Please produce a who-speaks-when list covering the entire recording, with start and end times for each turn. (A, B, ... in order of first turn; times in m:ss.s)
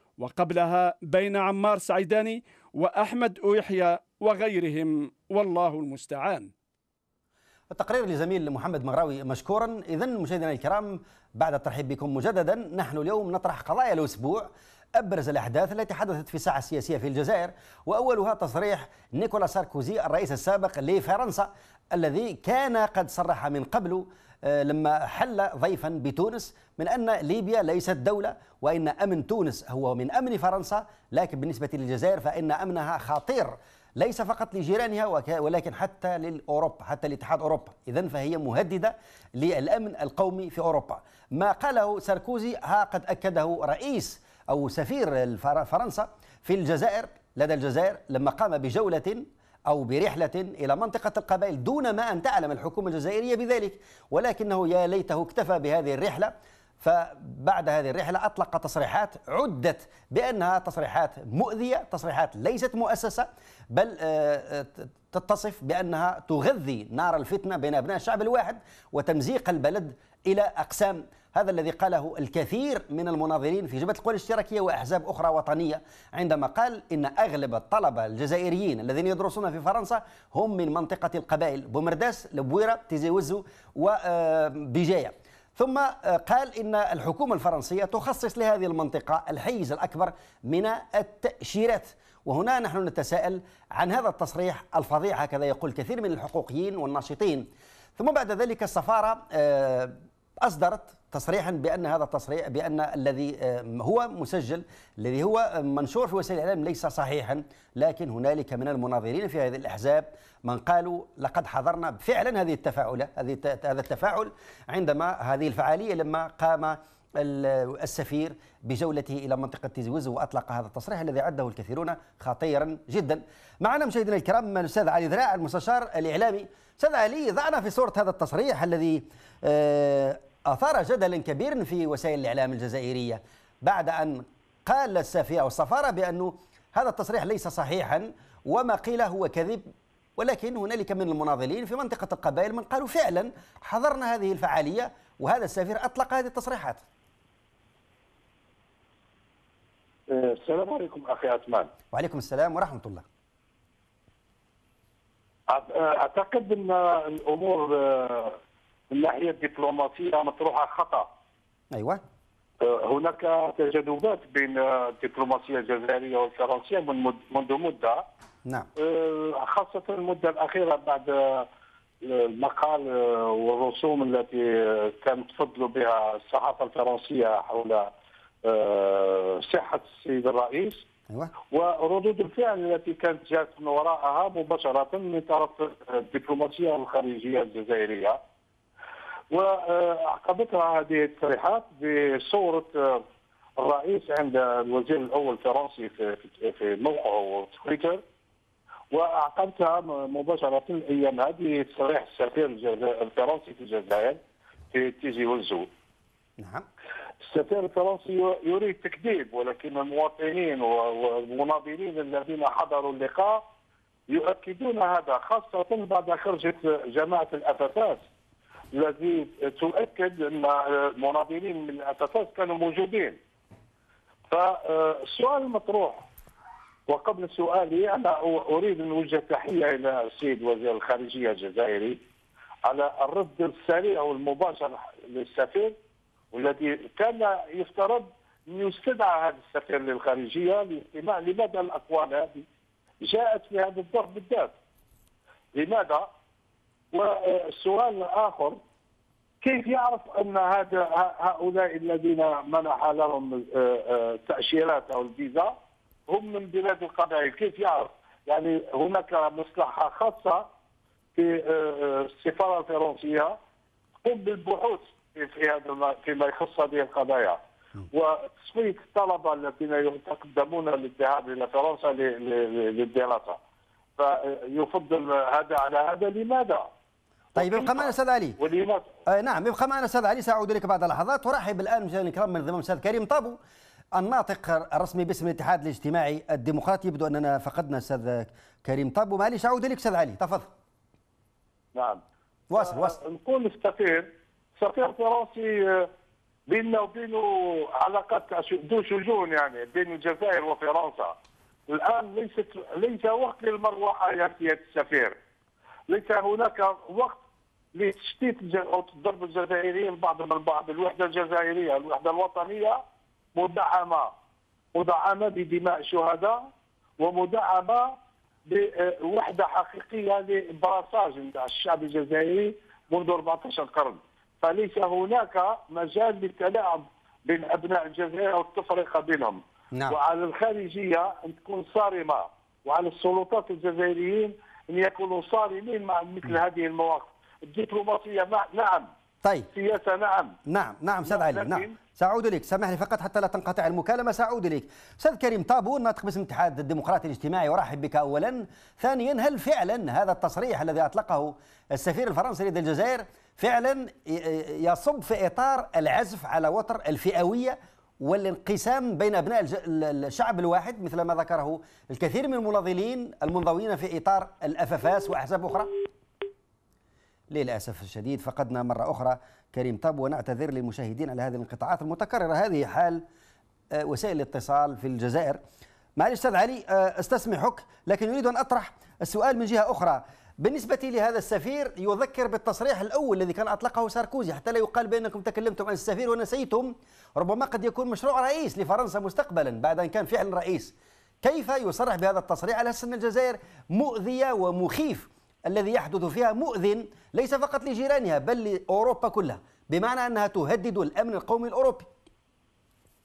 0:00.2-0:06.5 A
0:07.7-2:19.7 B
2:20.2-2:26.8 B
2:30.1-2:31.7 C
2:31.9-2:33.0 B
2:35.5-2:38.4 C
2:38.9-2:41.1 C
2:41.7-2:42.0 B
2:42.6-2:48.1 C
2:48.8-2:51.5 C
2:52.0-2:57.9 C
2:58.4-3:00.9 C
3:01.5-3:08.2 C
3:09.3-3:13.0 C
3:13.6-3:18.0 C
3:18.9-3:24.2 C
3:24.7-3:25.7 C
3:26.4-3:26.7 B
3:27.2-3:33.4 C
3:34.1-3:38.0 C
3:38.7-3:43.2 C
3:44.3-3:46.0 C
3:46.9-3:52.0 C
3:52.6-3:55.8 C
3:56.3-4:02.5 C
4:03.0-4:04.5 C
4:05.5-4:06.1 C
4:06.9-4:08.6 C
4:09.4-4:15.6 C
4:16.1-4:20.5 C
4:21.2-4:23.4 C
4:24.0-4:27.4 C
4:27.9-4:33.4 C
4:34.0-4:36.7 C
4:37.4-4:38.9 C
4:37.4-4:38.4 B
4:39.1-4:43.4 B
4:44.0-4:50.5 B
4:51.8-4:52.0 C
4:52.5-4:53.0 B
4:52.6-4:55.9 C
4:56.5-5:01.2 C
5:01.7-5:05.2 C
5:05.9-5:07.2 C
5:07.8-5:12.8 C
5:13.4-5:14.1 C
5:14.7-5:16.5 C
5:17.0-5:18.0 C
5:18.5-5:38.9 C
5:39.5-5:40.4 C
5:40.5-6:05.8 B
5:41.1-5:41.8 C
6:07.3-6:13.0 B
6:13.7-6:15.4 B
6:16.0-6:41.9 B